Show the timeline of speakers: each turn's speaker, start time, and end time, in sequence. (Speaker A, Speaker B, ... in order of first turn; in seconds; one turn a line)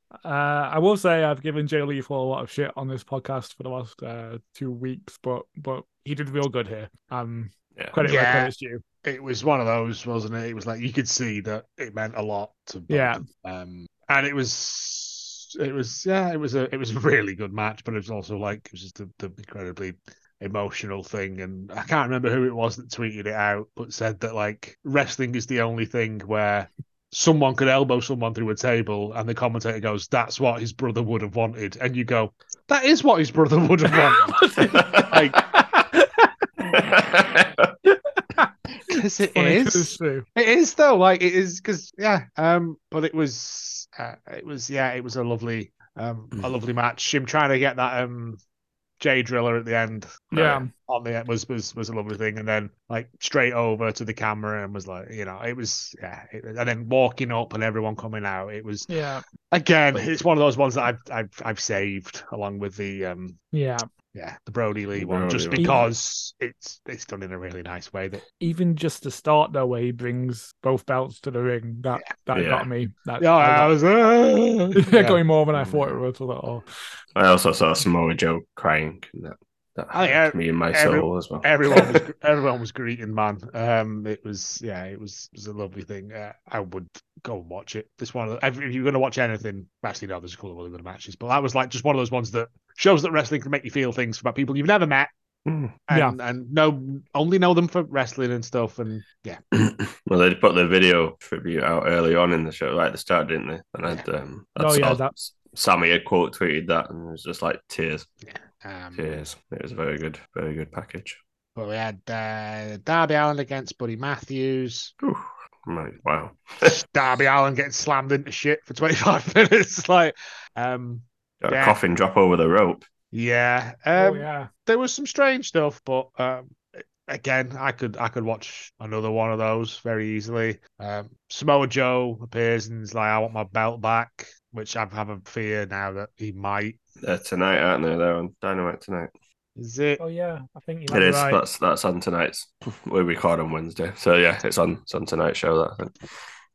Speaker A: 0.2-8.8
Speaker B: 8.0-8.5
Speaker B: 9.0-35.4
Speaker A: 12.9-13.2
Speaker A: 33.9-36.3
Speaker C: 34.6-35.1
Speaker C: 36.7-37.7
Speaker A: 37.9-40.2
Speaker B: 38.9-48.4
Speaker B: 49.0-58.9
Speaker C: 50.3-50.6
Speaker A: 50.3-50.7
Speaker A: 58.9-59.2
Speaker B: 59.5-63.4
Speaker A: 63.5-63.9
Speaker B: 64.1-68.2
Speaker C: 65.0-65.9
Speaker A: 65.6-65.9
Speaker A: 68.4-73.7
Speaker C: 72.3-72.7
Speaker B: 73.2-75.2
Speaker A: 74.8-76.6
Speaker C: 75.5-75.9
Speaker C: 77.2-82.0
Speaker B: 79.9-95.1
Speaker C: 95.5-95.7
Speaker B: 95.9-99.4
Speaker A: 95.9-96.2
Speaker C: 99.5-108.1
Speaker A: 104.6-105.1
Speaker B: 108.2-109.2
Speaker C: 109.0-111.2
Speaker B: 111.6-114.9
Speaker C: 115.0-116.8
Speaker B: 116.6-121.8
Speaker C: 121.4-122.8
Speaker B: 123.1-136.8
Speaker A: 124.0-124.5
Speaker C: 137.0-139.1
Speaker B: 139.6-140.0
Speaker A: 140.0-141.4
Speaker C: 140.9-146.0